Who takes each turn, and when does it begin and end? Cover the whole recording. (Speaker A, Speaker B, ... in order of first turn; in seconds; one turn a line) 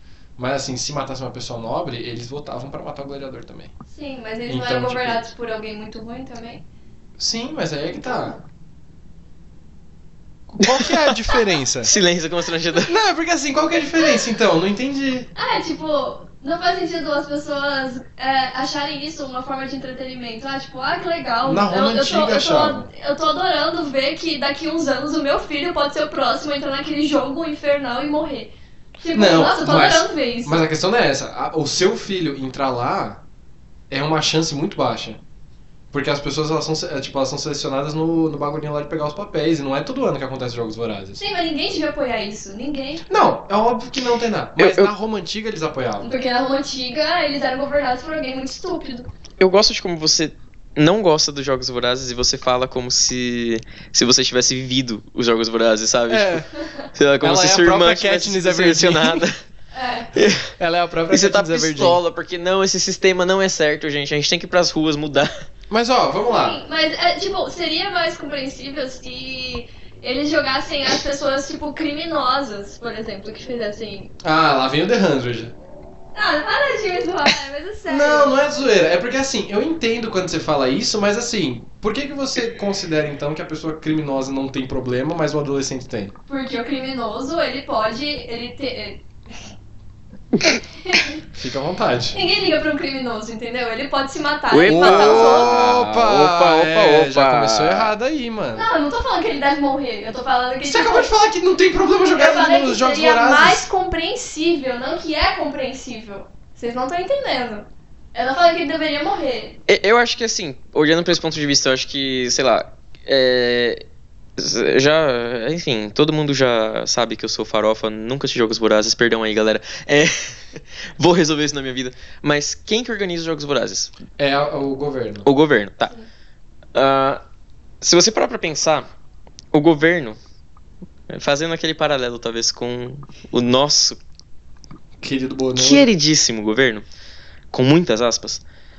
Speaker A: 0.4-3.7
Speaker B: 3.9-6.6
Speaker A: 4.5-5.3
Speaker A: 7.2-8.4
Speaker B: 8.0-8.4
Speaker A: 10.5-11.9
Speaker C: 10.6-12.9
Speaker A: 12.8-15.3
Speaker B: 15.3-30.6
Speaker A: 21.4-22.9
Speaker A: 29.1-33.2
Speaker A: 33.9-35.2
Speaker A: 35.9-41.2
Speaker B: 41.1-43.1
Speaker A: 43.1-46.1
Speaker C: 44.6-44.9
Speaker B: 46.0-49.1
Speaker C: 49.4-59.4
Speaker A: 56.1-56.5
Speaker B: 56.6-56.9
Speaker A: 57.2-59.3
Speaker B: 59.7-60.1
Speaker C: 60.1-60.5
Speaker A: 60.6-62.0
Speaker C: 61.1-65.4
Speaker A: 65.7-66.6
Speaker B: 66.2-74.1
Speaker A: 74.2-75.5
Speaker B: 76.1-78.5
Speaker A: 77.9-86.2
Speaker B: 86.3-89.0
Speaker B: 90.8-91.2
Speaker A: 91.3-92.2
Speaker B: 92.1-95.6
Speaker C: 94.5-97.9
Speaker A: 94.7-98.7
Speaker B: 98.5-101.1
Speaker A: 100.6-103.7
Speaker B: 102.1-109.6
Speaker C: 109.7-113.8
Speaker C: 114.4-123.9
Speaker A: 124.2-125.3
Speaker C: 125.2-125.9
Speaker C: 126.7-127.2
Speaker C: 127.8-128.9
Speaker C: 129.5-130.2
Speaker C: 131.1-134.0
Speaker A: 135.0-135.9
Speaker C: 135.5-136.8
Speaker C: 137.5-138.4